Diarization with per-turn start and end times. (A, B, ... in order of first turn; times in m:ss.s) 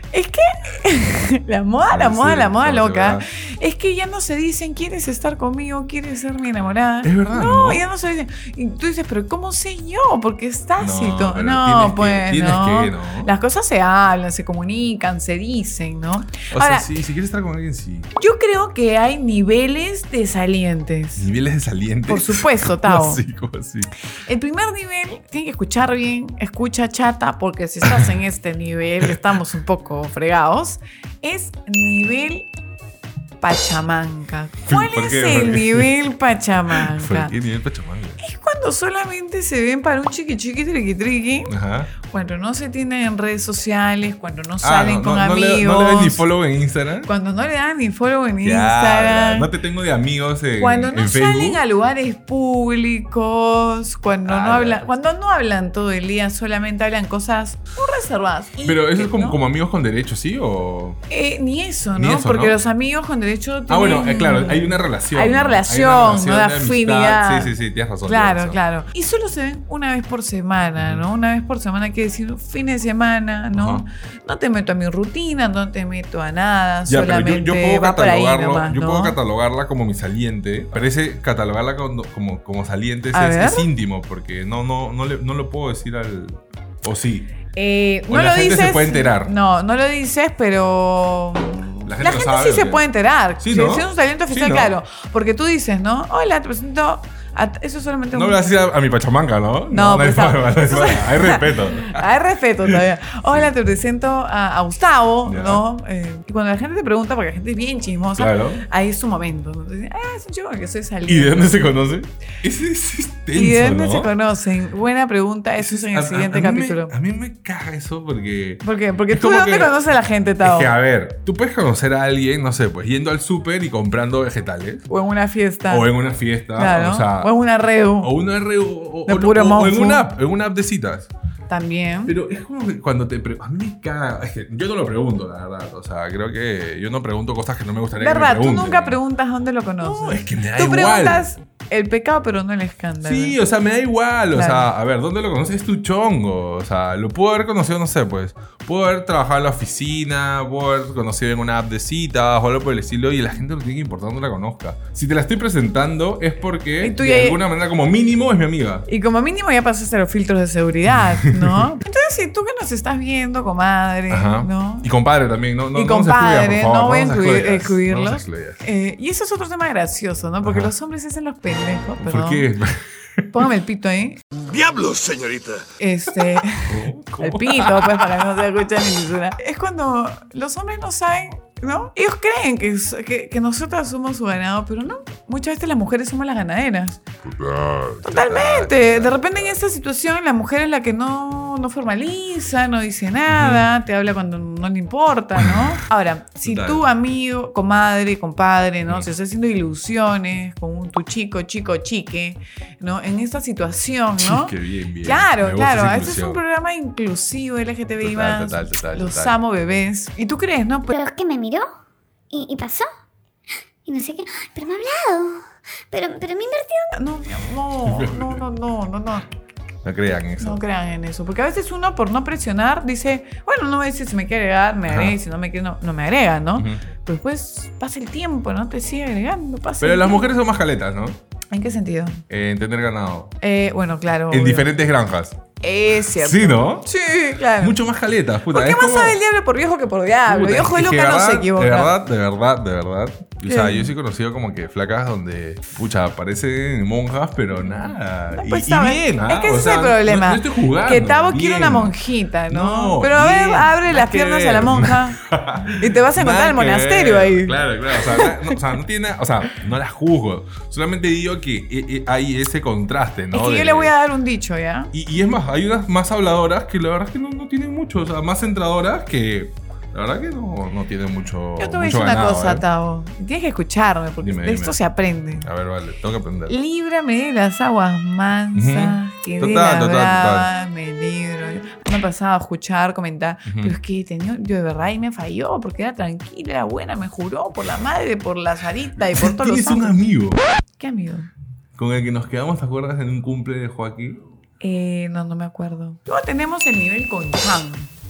0:00.1-0:16.9 A
0:01.9-0:03.3 B
0:07.0-0:07.9 B
0:10.8-0:13.3 B
0:16.5-0:18.1 B
0:18.2-0:21.3 A
0:21.2-0:23.9 B
0:22.1-0:23.2 A
0:24.2-0:32.5 A
0:33.4-0:37.3 A
0:34.7-0:35.9 B
0:36.7-0:38.2 B
0:38.2-0:46.2 A
0:41.5-0:41.9 B
0:44.6-0:47.1 B
0:47.0-0:49.5 A
0:48.4-0:51.6 B
0:50.6-0:59.4 A
0:54.2-0:54.9 B
0:58.6-1:01.0 B
1:01.1-1:07.5 A
1:02.0-1:02.6 B
1:03.7-1:08.6 B
1:08.1-1:19.2 A
1:13.5-1:13.8 B
1:16.9-1:27.3 B
1:23.1-1:23.7 A
1:27.5-1:38.4 A
1:28.1-1:29.3 B
1:31.9-1:32.8 B
1:33.4-1:34.7 B
1:38.1-1:42.1 B
1:39.7-1:51.7 A
1:42.6-1:43.5 B
1:45.3-1:45.6 B
1:48.2-1:48.6 B
1:51.1-1:54.1 B
1:53.4-1:56.9 A
1:55.6-1:59.8 B
1:58.6-2:00.7 A
2:00.4-2:04.9 B
2:04.9-2:05.9 A
2:05.7-2:07.3 B
2:06.6-2:08.1 A
2:08.0-2:11.1 B
2:09.1-2:10.1 A
2:11.5-2:12.1 A
2:12.1-2:19.0 B
2:18.0-2:23.4 A
2:19.8-2:21.3 B
2:23.0-2:38.9 B
2:24.3-2:24.7 A
2:36.8-2:37.4 A
2:38.9-2:44.9 A
2:40.9-2:41.7 B
2:44.1-2:48.6 B
2:45.7-2:52.5 A
2:50.4-2:50.7 B
2:52.0-2:53.3 B
2:53.3-2:54.2 A
2:54.6-2:55.1 B
2:55.7-3:07.0 A
2:56.5-2:58.4 B
3:07.3-3:09.6 B
3:08.0-3:30.9 A
3:13.3-3:13.7 B
3:15.4-3:15.8 B
3:16.4-3:16.9 B
3:24.2-3:26.4 B
3:28.0-3:29.4 B
3:30.9-3:31.7 C
3:32.3-3:32.9 C
3:33.9-3:37.0 C
3:36.9-3:39.3 A
3:37.8-3:38.4 B
3:39.8-3:40.6 B
3:40.4-3:50.3 A
3:44.9-3:45.2 B
3:46.6-3:46.8 B
3:49.8-3:51.2 B
3:51.5-3:52.2 A
3:52.3-3:53.4 B
3:53.4-3:54.7 A
3:54.3-3:55.4 B
3:55.6-3:57.8 A
3:56.2-3:56.9 B
3:57.6-3:59.2 B
3:58.5-4:02.0 A
4:00.3-4:12.0 B
4:03.5-4:03.9 A
4:08.3-4:18.6 A
4:12.5-4:23.9 B
4:23.3-4:24.9 A
4:24.9-4:32.6 B
4:31.6-4:35.5 A
4:34.2-4:34.8 B
4:35.4-4:36.6 B
4:36.5-4:50.0 A
4:38.5-4:40.5 B
4:43.5-4:43.8 B
4:49.0-4:50.4 B
4:50.8-4:51.3 A
4:51.8-4:54.2 B
4:54.6-4:57.9 A